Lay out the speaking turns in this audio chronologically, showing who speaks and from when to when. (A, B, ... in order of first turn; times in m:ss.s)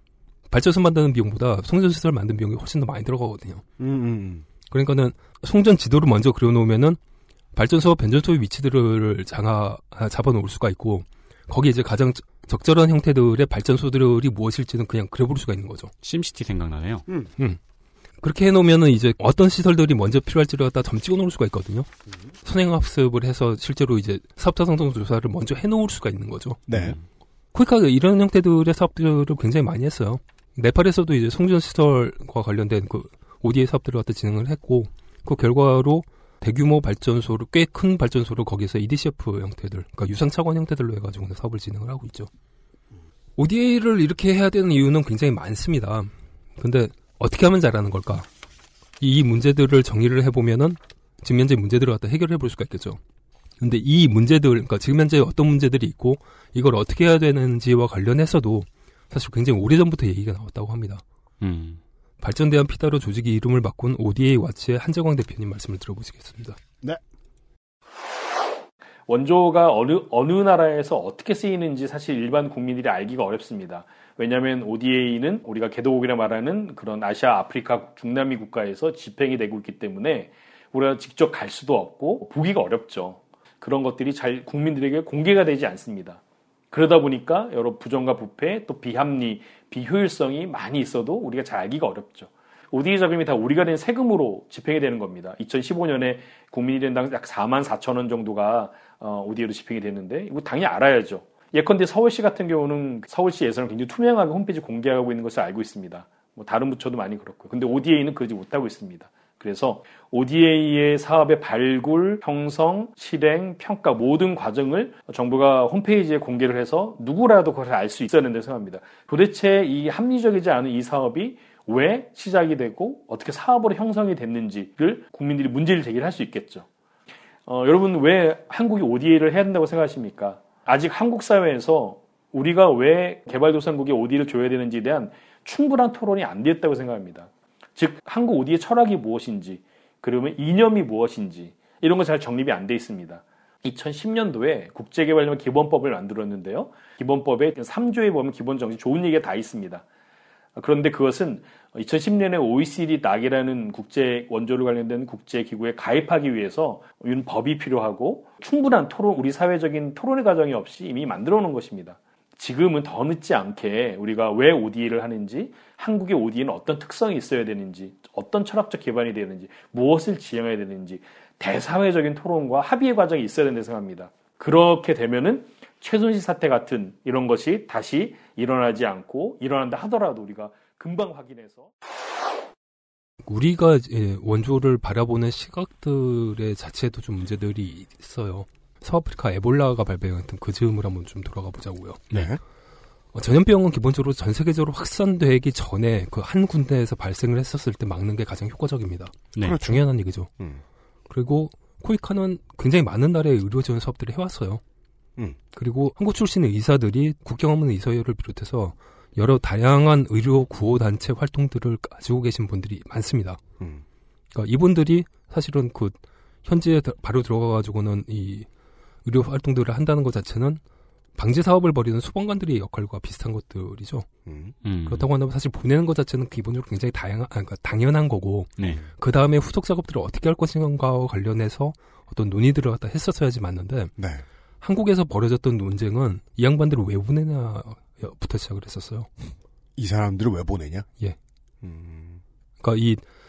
0:00.5-0:03.6 A
0:03.8-0:04.5 B
0:04.7-0:07.0 A
0:07.6-0:15.9 A
0:16.0-0:17.1 C
0:18.2-0:21.9 A
0:22.4-0:26.6 A
0:26.7-0:27.0 B
0:26.7-0:27.0 C
0:27.5-0:42.3 A
0:43.4-0:48.3 A
0:49.0-0:53.0 A
0:53.6-1:01.0 A
1:01.4-1:01.8 C
1:02.2-1:06.6 A
1:09.1-1:26.2 D
1:26.7-2:06.7 D
2:07.5-2:29.8 D
2:30.6-3:01.7 D
3:03.2-3:12.0 A
3:12.1-3:12.4 B
3:13.1-3:20.3 A
3:19.4-3:19.8 B
3:21.1-3:24.6 A
3:25.5-3:33.4 A
3:34.3-3:38.5 A
3:39.0-3:40.6 A
3:41.2-3:44.1 A
3:44.3-3:44.6 B
3:44.6-3:45.1 C
3:44.9-3:53.9 A
3:54.0-3:54.2 B
3:54.6-3:59.1 A
3:59.8-4:00.9 B
4:01.6-4:02.2 B
4:02.6-4:03.0 A